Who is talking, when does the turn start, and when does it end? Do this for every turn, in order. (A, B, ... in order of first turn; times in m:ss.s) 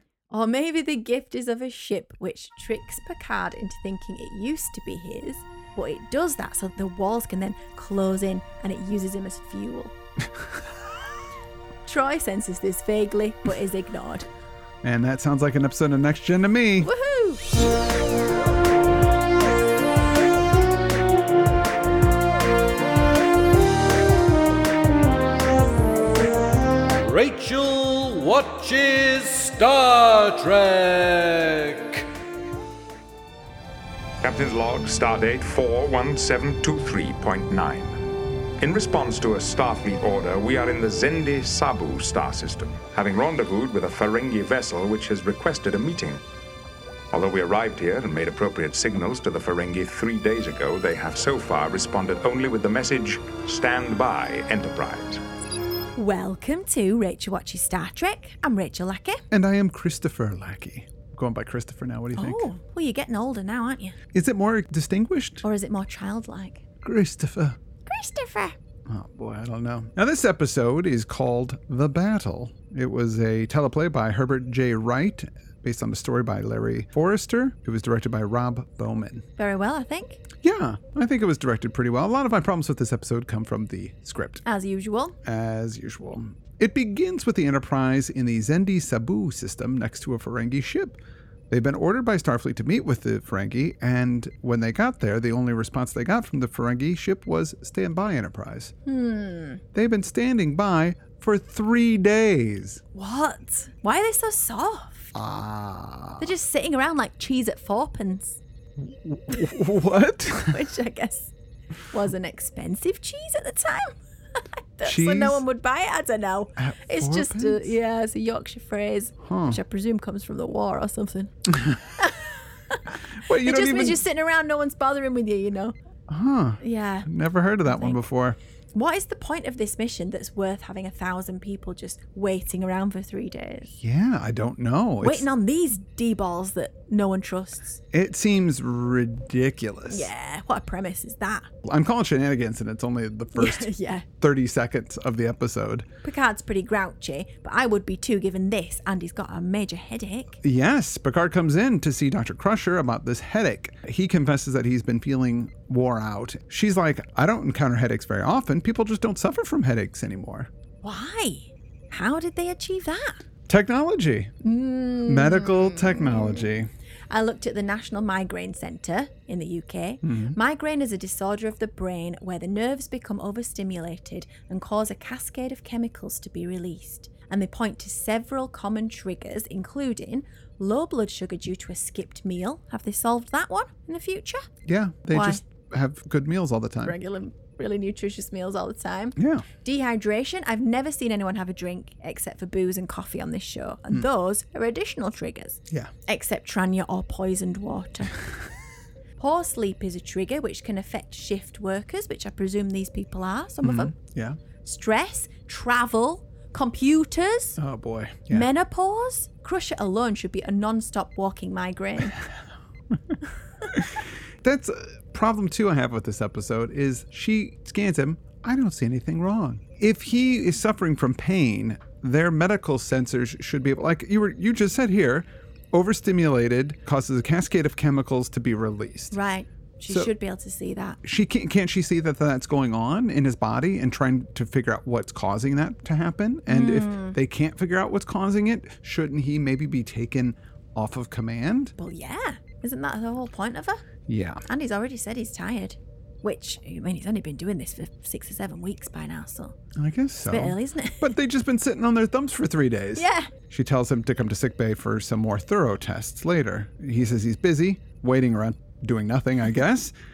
0:00.3-0:09.9 A
0:11.9-0:14.3 A
0:14.8-0:16.9 B
0:16.8-0:17.4 A
0:27.0-0:32.1 C
0:34.2-0:38.0 D
0:38.6-0:46.2 D
0:47.1-0:55.2 D
0:56.0-0:59.2 A
0:59.3-1:02.5 B
1:02.2-1:04.0 A
1:04.1-1:05.4 B
1:05.4-1:06.6 A
1:06.8-1:07.6 B
1:07.9-1:08.6 A
1:08.9-1:19.2 B
1:19.4-1:20.2 A
1:20.4-1:24.4 B
1:24.4-1:25.2 A
1:25.2-1:31.0 B
1:31.5-1:38.7 B
1:38.9-1:39.6 A
1:39.7-1:42.8 B
1:43.0-1:45.1 A
1:45.1-1:46.3 B
1:46.2-1:48.4 A
1:48.8-1:50.6 B
1:50.4-1:51.3 A
1:51.9-2:05.8 A
1:54.8-1:55.4 B
1:56.6-1:57.7 B
1:59.2-1:59.6 B
2:01.5-2:01.8 B
2:03.2-2:04.0 B
2:06.1-2:08.4 B
2:06.6-2:07.1 A
2:07.6-2:08.0 A
2:08.7-2:13.7 A
2:13.7-2:15.3 B
2:15.0-2:17.8 A
2:17.9-2:20.1 B
2:19.9-2:21.5 A
2:21.6-2:23.7 B
2:23.4-2:24.1 A
2:24.2-2:25.9 B
2:26.0-2:30.4 A
2:30.4-2:40.5 B
2:40.8-2:43.2 A
2:43.5-2:44.4 B
2:44.4-2:46.5 A
2:45.1-2:46.7 B
2:47.1-3:04.5 A
2:50.0-2:50.4 B
3:04.6-3:07.0 B
3:05.1-3:05.4 A
3:06.8-3:18.2 A
3:09.2-3:09.4 B
3:19.2-3:23.9 A
3:23.6-3:24.4 B
3:24.6-3:27.6 A
3:27.6-3:28.5 B
3:28.3-3:32.2 A
3:33.7-3:49.2 B
3:49.1-3:51.0 A
3:51.0-4:01.8 B
3:56.5-3:57.2 A
4:01.8-4:03.8 A
4:04.1-4:04.4 B
4:04.5-4:09.6 A
4:09.8-4:19.9 B
4:10.3-4:11.1 A
4:13.0-4:13.3 A